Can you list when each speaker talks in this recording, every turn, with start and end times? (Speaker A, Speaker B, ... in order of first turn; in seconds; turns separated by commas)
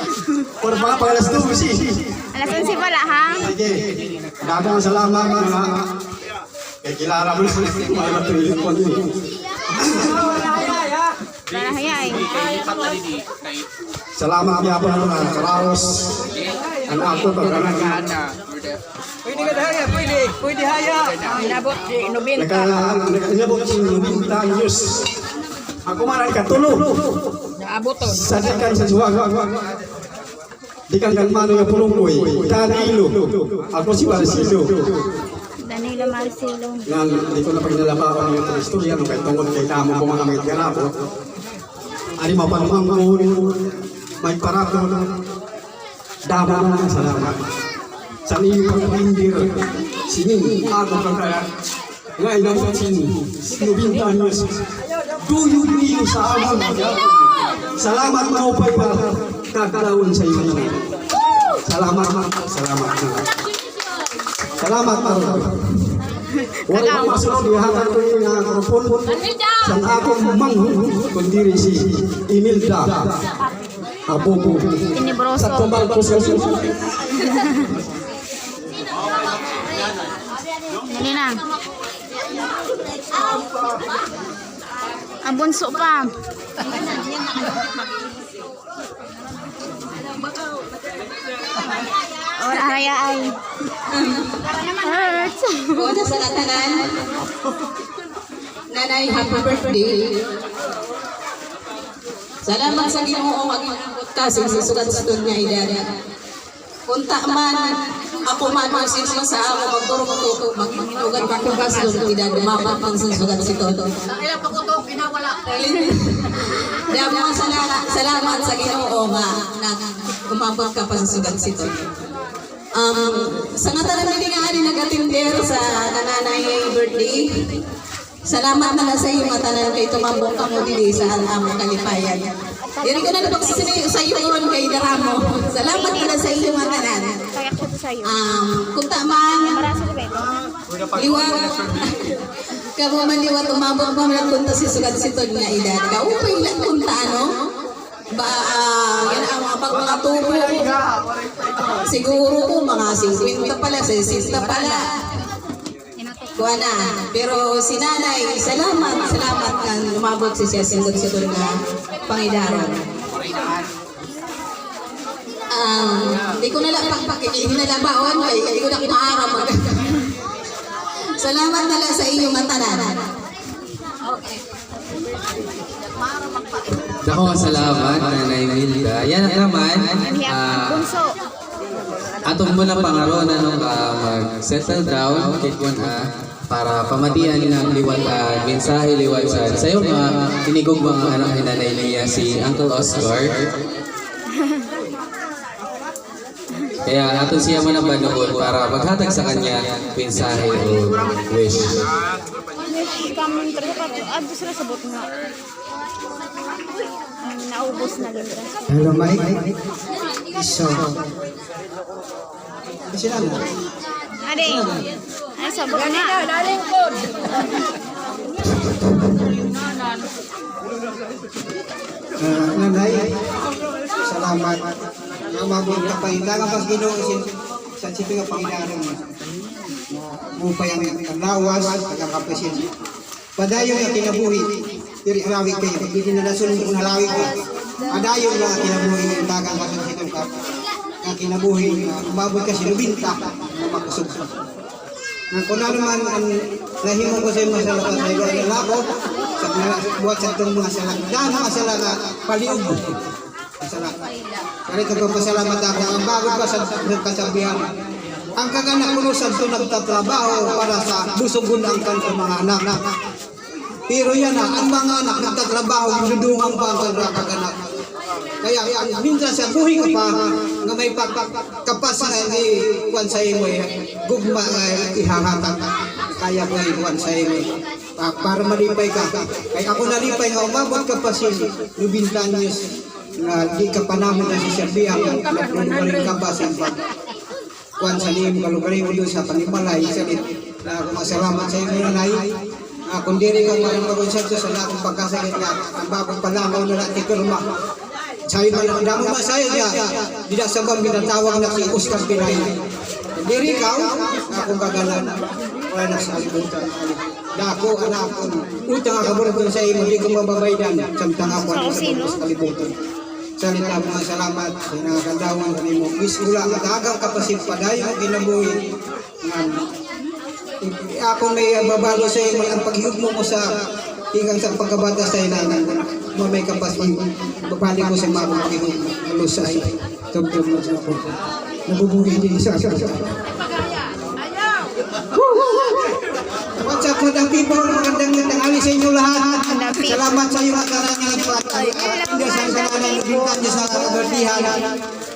Speaker A: 0.6-2.2, Speaker B: 2.3-3.4, Speaker A: 3.3-5.9, Speaker A: 6.8-9.1, Speaker A: 9.7-10.7, Speaker B: 11.5-12.3, Speaker C: 11.6-11.9, Speaker A: 14.2-16.3, Speaker A: 16.8-18.3, Speaker D: 19.4-19.9, Speaker D: 20.7-21.1, Speaker C: 21.9-22.2, Speaker A: 22.3-25.1, Speaker A: 25.8-27.0, Speaker A: 28.0-29.5, Speaker A: 30.9-34.9, Speaker B: 35.7-36.8, Speaker C: 35.8-36.2, Speaker A: 36.9-40.9, Speaker A: 42.2-43.6, Speaker A: 44.2-45.1, Speaker A: 46.2-47.4, Speaker A: 48.2-51.5, Speaker A: 52.2-54.6, Speaker A: 55.2-60.8, Speaker A: 61.6-63.3, Speaker A: 64.6-65.8, Speaker A: 66.7-73.2, Speaker B: 66.7-67.1, Speaker A: 74.1-76.7, Speaker B: 74.9-75.7, Speaker B: 80.9-81.4, Speaker C: 85.2-85.6, Speaker B: 85.3-86.1, Speaker B: 92.4-93.3, Speaker C: 92.5-92.9, Speaker E: 93.9-94.3, Speaker B: 94.7-95.8, Speaker E: 95.8-96.8, Speaker E: 98.7-100.1, Speaker E: 102.4-105.8, Speaker E: 106.9-107.7, Speaker E: 108.2-114.0, Speaker E: 115.2-121.8, Speaker E: 122.7-127.5, Speaker E: 128.2-137.2, Speaker B: 135.7-136.1, Speaker B: 137.3-138.1, Speaker E: 138.0-139.7, Speaker B: 139.5-140.2, Speaker E: 140.9-147.3, Speaker E: 148.1-150.7, Speaker E: 151.7-154.8, Speaker E: 156.4-161.5, Speaker E: 162.1-162.8, Speaker E: 165.5-170.1, Speaker E: 171.1-173.0, Speaker F: 177.0-180.8, Speaker B: 180.1-181.1, Speaker F: 182.2-193.3, Speaker F: 196.8-201.8, Speaker B: 202.7-205.1, Speaker B: 207.2-208.7, Speaker D: 208.7-209.6, Speaker D: 210.3-211.1, Speaker D: 212.9-213.5, Speaker B: 214.3-214.6, Speaker D: 214.4-214.8, Speaker B: 215.4-216.5, Speaker D: 218.6-219.1, Speaker D: 222.2-223.1, Speaker D: 224.0-224.7, Speaker D: 225.3-227.3, Speaker D: 227.8-229.0, Speaker D: 230.3-232.7, Speaker D: 233.4-237.3, Speaker D: 237.9-240.3, Speaker D: 241.0-244.3, Speaker D: 245.3-252.9, Speaker D: 253.6-253.9, Speaker D: 254.7-257.6, Speaker D: 258.4-262.8, Speaker D: 263.9-267.5, Speaker D: 268.4-282.6, Speaker D: 283.2-286.8, Speaker D: 287.8-292.3, Speaker D: 292.9-297.4, Speaker D: 298.3-302.6, Speaker D: 303.1-305.1, Speaker D: 305.7-312.7, Speaker D: 313.4-318.6, Speaker D: 319.2-319.6, Speaker D: 320.6-323.5, Speaker D: 324.1-331.0, Speaker D: 331.6-333.1, Speaker D: 336.6-344.8